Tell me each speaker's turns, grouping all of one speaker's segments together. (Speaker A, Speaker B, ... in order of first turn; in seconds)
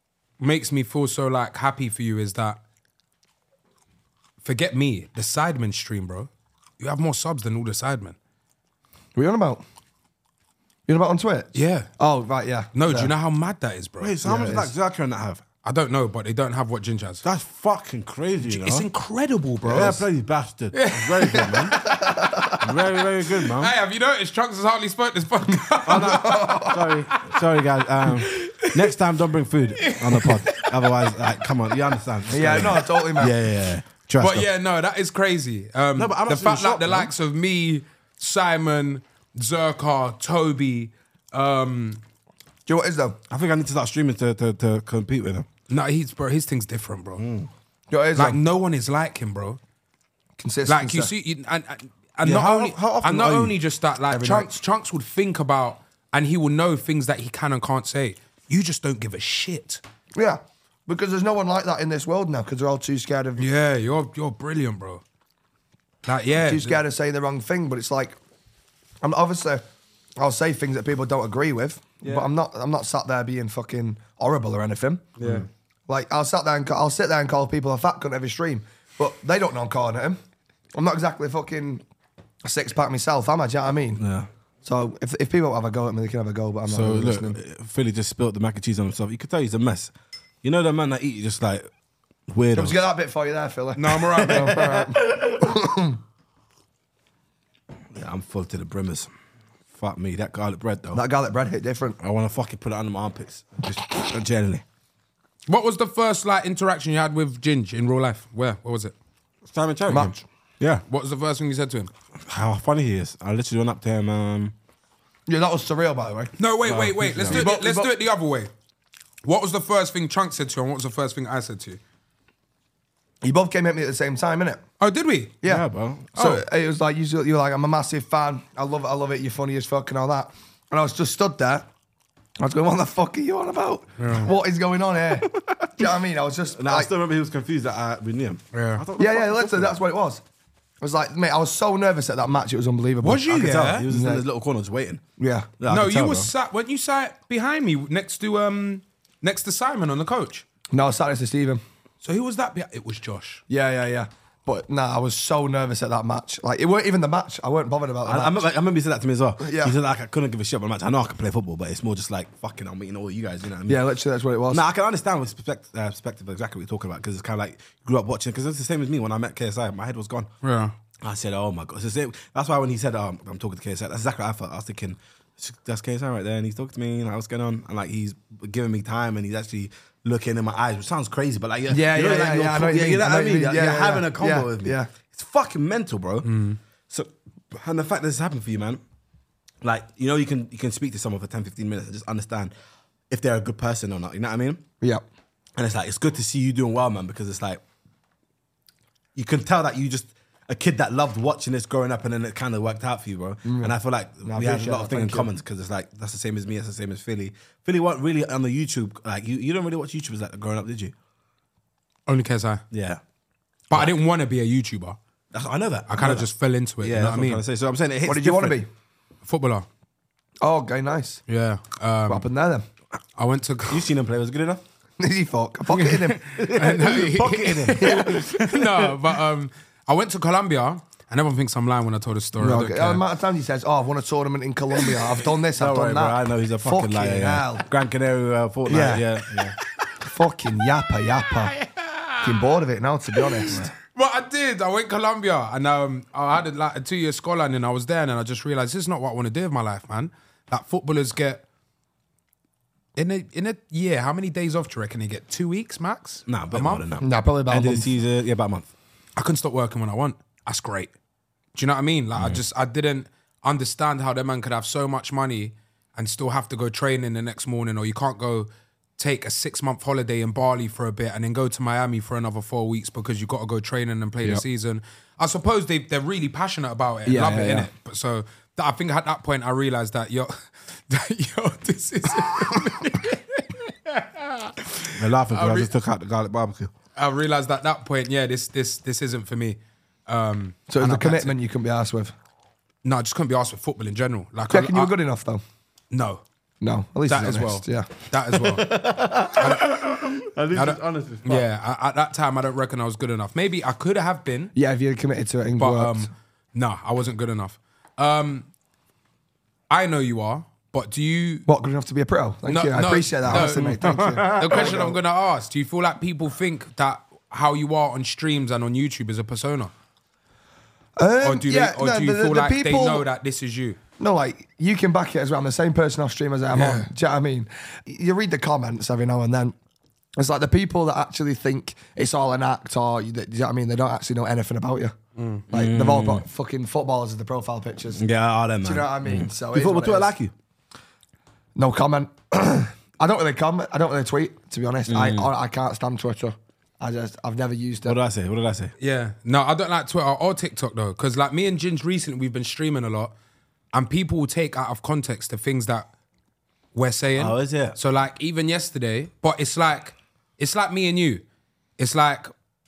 Speaker A: 0.4-2.6, 4.4-6.3, 6.8-8.2, 11.6-11.9, 12.7-14.7, 15.6-17.2, 18.4-20.0, 20.7-22.5, 23.5-27.4, 28.1-28.9, 29.8-30.9, 34.2-42.0, 45.7-47.2, 48.1-49.6, 50.6-59.8, 63.4-65.0, 66.0-66.8, 75.2-75.5, 93.8-94.9, 105.5-108.9, 110.9-111.9, 116.4-118.5, 119.2-121.8, 124.8-125.4, 134.0-134.3, 138.5-138.8, 143.0-143.9, 145.7-150.4, 152.0-153.4, 170.4-170.7, 186.2-186.6, 212.1-212.6, 213.7-215.0, 215.9-217.4, 219.2-219.7, 221.3-222.2, 223.2-223.9, 225.8-233.0, 241.6-242.4, 243.2-251.4, 252.9-256.9, 259.1-260.9, 261.6-285.7, 286.9-291.4, 292.8-294.9, 295.9-296.2, 297.1-304.5, 305.6-308.5, 309.7-311.5, 312.4-319.7, 321.2-323.8, 326.5-326.9, 335.1-335.4, 348.8-353.1, 353.7-355.9, 356.7-361.2, 361.8-362.3
Speaker B: 9.2-9.6, 10.9-13.1, 19.7-19.9, 21.8-22.6, 25.9-26.8, 32.3-33.3, 42.7-43.2, 47.9-48.4, 50.4-51.1, 54.1-54.5, 60.1-63.5, 66.4-68.2, 69.0-69.6, 70.2-75.1, 75.9-80.2, 80.7-81.8, 82.4-84.0, 84.6-87.4, 92.6-96.0, 100.9-102.0, 109.9-110.2, 115.3-116.3, 117.3-117.9, 123.2-124.6, 125.4-131.7, 132.4-136.9, 139.0-140.2, 140.8-144.2, 145.2-145.5, 150.7-151.6, 153.5-158.4, 159.4-159.7, 163.7-164.6, 181.7-184.9, 203.4-203.7, 204.2-205.3, 218.1-218.7, 220.4-221.2, 222.1-222.6, 225.0-226.2, 232.4-237.7, 238.7-239.0, 240.0-241.6, 242.2-243.7, 257.0-257.9, 277.1-277.7, 290.7-292.1, 294.5-295.4, 296.6-297.9, 304.6-306.1, 311.5-315.0, 321.0-323.1, 324.0-329.5, 330.1-334.9, 335.5-338.0, 338.6-340.1, 341.6-348.0
Speaker C: 14.0-15.4, 17.2-18.9, 19.6-21.8, 22.6-23.7, 25.9-34.5, 36.0-37.1, 43.3-45.5, 47.2-47.5, 52.2-53.6, 75.2-75.5, 84.0-84.3, 86.7-91.7, 92.3-92.8, 94.2-95.2, 97.9-99.1, 99.7-101.0, 102.0-104.6, 109.4-110.8, 112.2-114.5, 116.6-117.5, 125.4-126.4, 135.3-135.8, 136.5-139.8, 143.3-145.0, 145.6-146.3, 158.0-163.8, 164.5-170.3, 171.0-186.3, 186.9-188.8, 189.6-192.5, 193.1-194.6, 195.6-197.6, 199.1-210.9, 212.7-213.0, 215.3-216.3, 216.8-218.6, 223.7-224.6, 226.1-228.9, 235.6-239.6, 256.3-258.7, 262.1-262.4, 285.0-286.7, 298.6-301.4, 313.3-314.8, 335.5-336.2, 337.9-340.3, 344.9-345.3, 347.9-348.7, 357.1-357.8